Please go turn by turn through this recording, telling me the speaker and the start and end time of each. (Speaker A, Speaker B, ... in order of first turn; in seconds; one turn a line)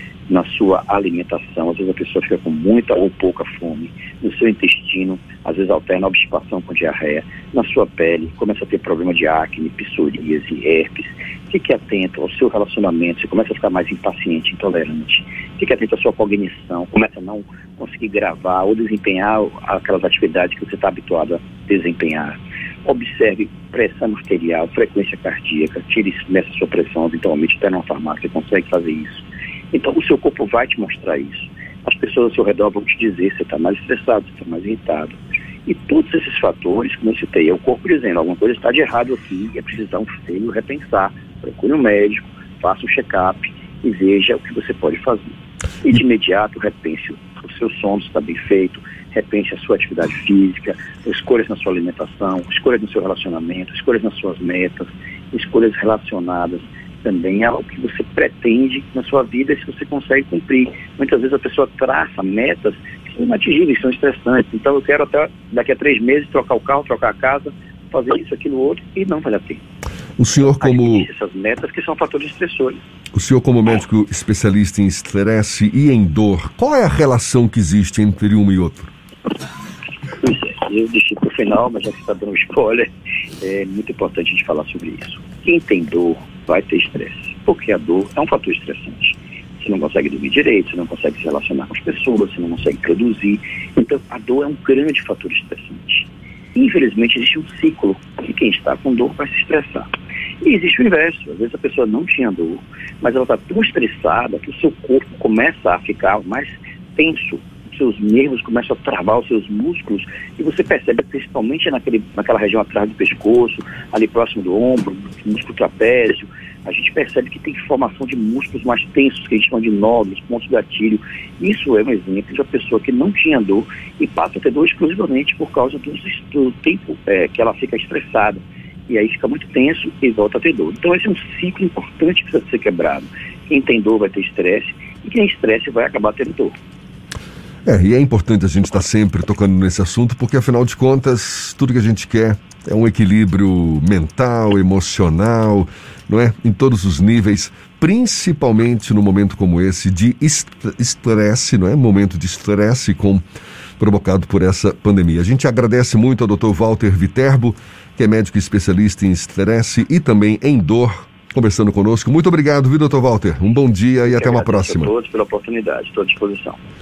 Speaker A: 0.3-69.6
Speaker B: 70.2-71.1
Speaker A: 70.4-72.8
Speaker B: 73.1-78.9
Speaker A: 80.2-99.9
Speaker A: 100.4-136.5
Speaker B: 137.7-153.2
Speaker B: 153.8-164.9
Speaker A: 164.0-166.6